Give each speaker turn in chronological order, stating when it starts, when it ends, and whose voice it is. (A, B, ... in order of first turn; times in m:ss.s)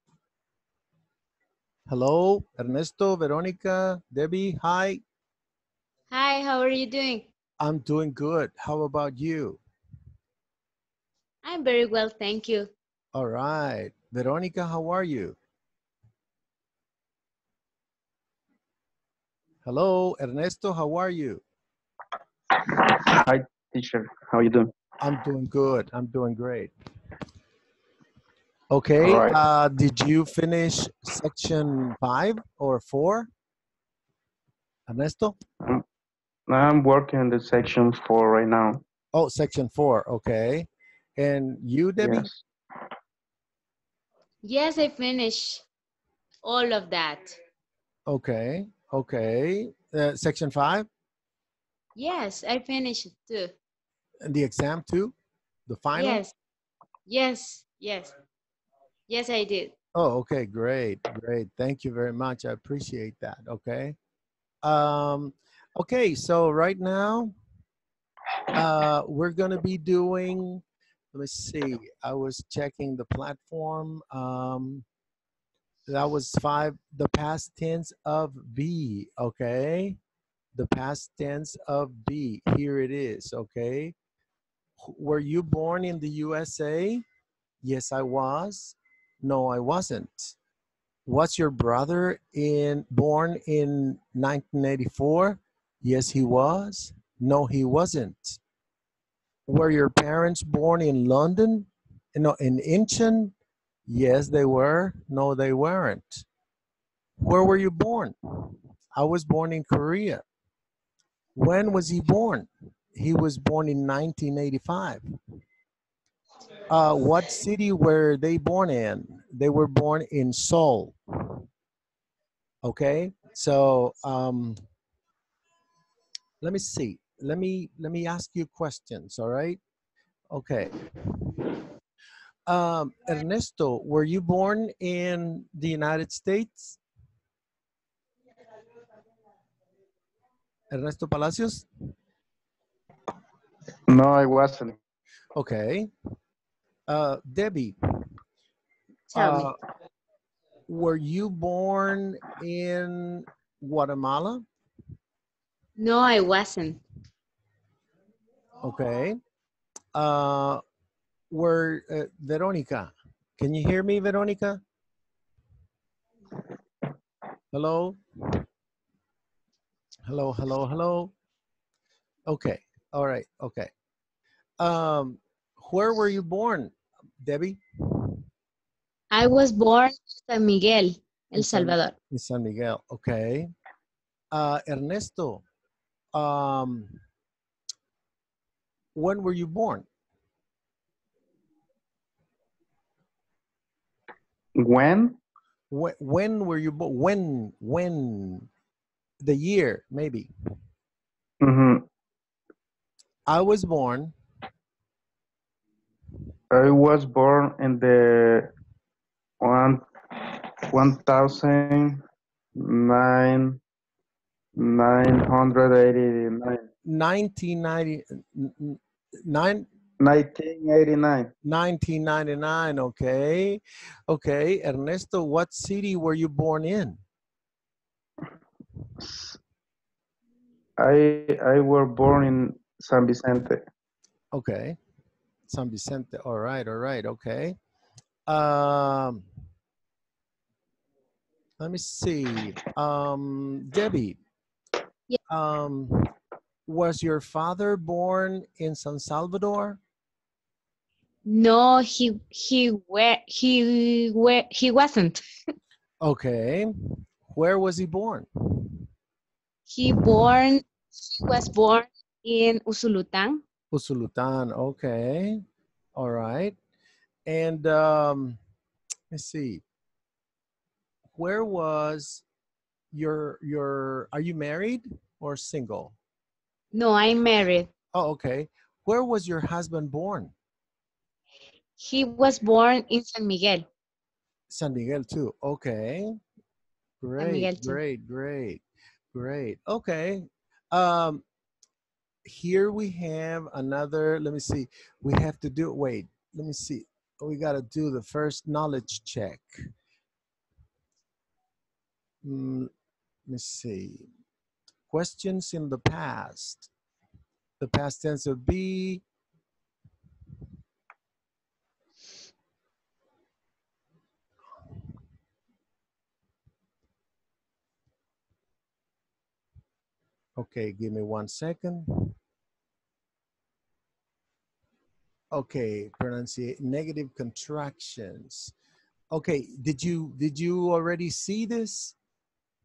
0:01.9-0:05.0 A
0:06.1-0:07.3 B
0:07.6-0:09.6 A
0:11.4-0:12.7 B
0:13.2-0:15.4 A
0:19.6-0:21.4 A
0:22.6-0:24.7 C
0:25.0-0:26.7 A
0:28.7-0:33.3 A
0:29.0-0:29.4 C
0:34.9-0:35.4 A
0:36.5-0:38.8 C
0:39.1-0:42.3 A
0:42.0-0:42.4 C
0:44.4-0:45.6 B
0:46.4-0:47.4 B
0:48.1-0:50.9 A
0:52.0-0:53.5 B
0:54.2-0:55.2 A
0:55.7-0:56.2 A
0:56.0-0:56.3 B
0:57.1-0:58.1 B
0:59.1-0:59.7 B
1:00.0-1:04.0 A
1:04.6-1:07.3 A
1:08.5-1:14.8 A
1:15.9-1:20.0 A
1:20.6-1:23.9 A
1:24.8-1:27.0 A
1:27.6-1:30.4 A
1:31.1-1:38.4 A
1:39.5-1:43.3 A
1:43.9-1:46.3 A
1:47.2-1:48.2 A
1:49.0-1:50.2 A
1:51.4-1:55.0 A
1:56.7-2:01.0 A
2:02.6-2:04.6 A
2:06.4-2:09.6 A
2:10.3-2:10.9 A
2:12.5-2:16.8 A
2:20.7-2:21.7 A
2:23.9-2:24.8 C
2:25.4-2:25.9 A
2:26.9-2:27.8 A
2:29.1-2:29.5 B
2:29.1-2:29.5 A
2:30.7-2:34.4 A
2:35.8-2:36.8 B
2:38.6-2:39.2 A
2:39.9-2:40.6 A
2:41.3-2:44.6 A
2:47.5-2:48.0 A
2:50.1-2:51.1 A
2:52.3-2:53.7 A
2:54.6-2:57.6 A
2:59.1-3:02.0 B
3:01.4-3:03.5 A
3:04.3-3:05.4 A
3:06.1-3:07.0 A
3:09.0-3:09.9 A
3:14.6-3:15.2 C
3:15.7-3:18.5 A
3:19.2-3:20.3 A
3:21.4-3:21.9 C
3:23.3-3:24.1 A
3:26.5-3:28.5 C
3:29.4-3:32.0 C
3:32.6-3:33.6 C
3:34.6-3:36.7 C
3:36.8-3:39.7 A
3:40.0-3:41.3 C
3:41.4-3:47.0 A
3:49.0-3:49.4 C
3:50.8-3:53.6 C
3:54.3-3:54.8 A
3:55.5-3:57.6 A
3:58.3-3:59.3 A
4:01.6-4:04.2 A
4:05.3-4:06.1 A
4:06.7-4:09.8 A
4:11.3-4:15.2 B
4:16.0-4:18.7 A
4:19.7-4:23.4 B
4:23.7-4:25.4 A
4:26.0-4:26.6 A
4:27.3-4:28.4 A
4:29.1-4:29.6 A
4:31.2-4:32.2 A
4:32.9-4:36.0 A
4:36.7-4:37.7 B
4:37.9-4:40.3 A
4:41.8-4:43.7 B
4:44.5-4:46.2 A
4:47.0-4:51.2 A
4:47.2-4:47.8 B
4:52.2-4:59.7 A
5:02.2-5:02.7 A
5:03.3-5:04.1 A
5:04.9-5:06.7 A
5:07.6-5:09.0 A
5:20.4-5:22.1 A
5:25.3-5:28.5 A
5:29.1-5:32.0 A